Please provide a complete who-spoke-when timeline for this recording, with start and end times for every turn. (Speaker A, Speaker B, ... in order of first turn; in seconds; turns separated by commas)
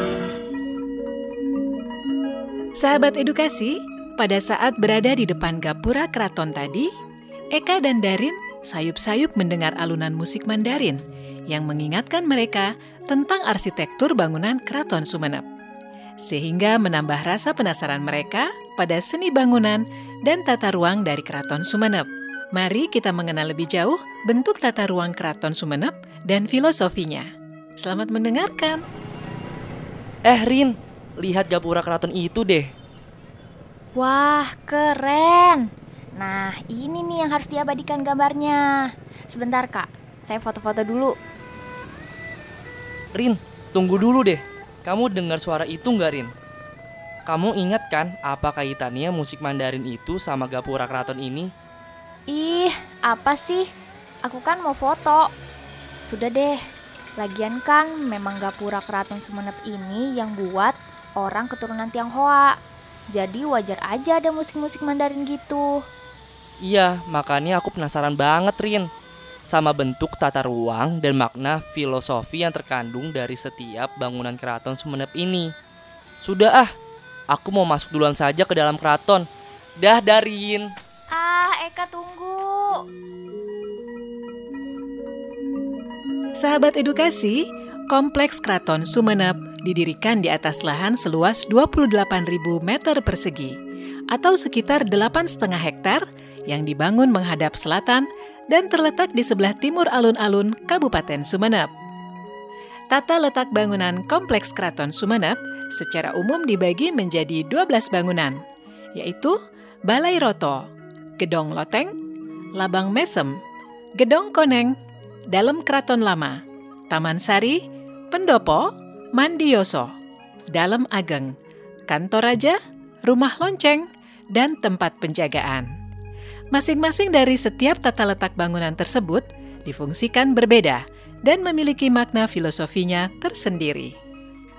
Speaker A: 2.8-6.9, Speaker A: 7.5-15.4, Speaker A: 16.2-28.8, Speaker B: 30.2-32.7, Speaker C: 34.0-41.1, Speaker B: 43.1-46.3, Speaker B: 47.2-51.5, Speaker C: 52.3-53.7, Speaker C: 54.2-55.3, Speaker C: 56.0-56.6, Speaker C: 57.2-62.6, Speaker C: 63.1-65.8, Speaker B: 66.6-68.9, Speaker B: 69.5-75.5, Speaker B: 76.2-76.7, Speaker B: 77.3-79.3, Speaker B: 79.8-80.7, Speaker C: 81.1-82.8, Speaker A: 86.4-93.5, Speaker A: 94.1-101.7, Speaker A: 102.9-108.4, Speaker A: 108.9-111.9, Speaker A: 112.5-113.4, Speaker A: 114.0-114.8, Speaker A: 115.3-119.9, Speaker A: 120.5-121.3, Speaker A: 121.9-125.7, Speaker A: 126.5-133.9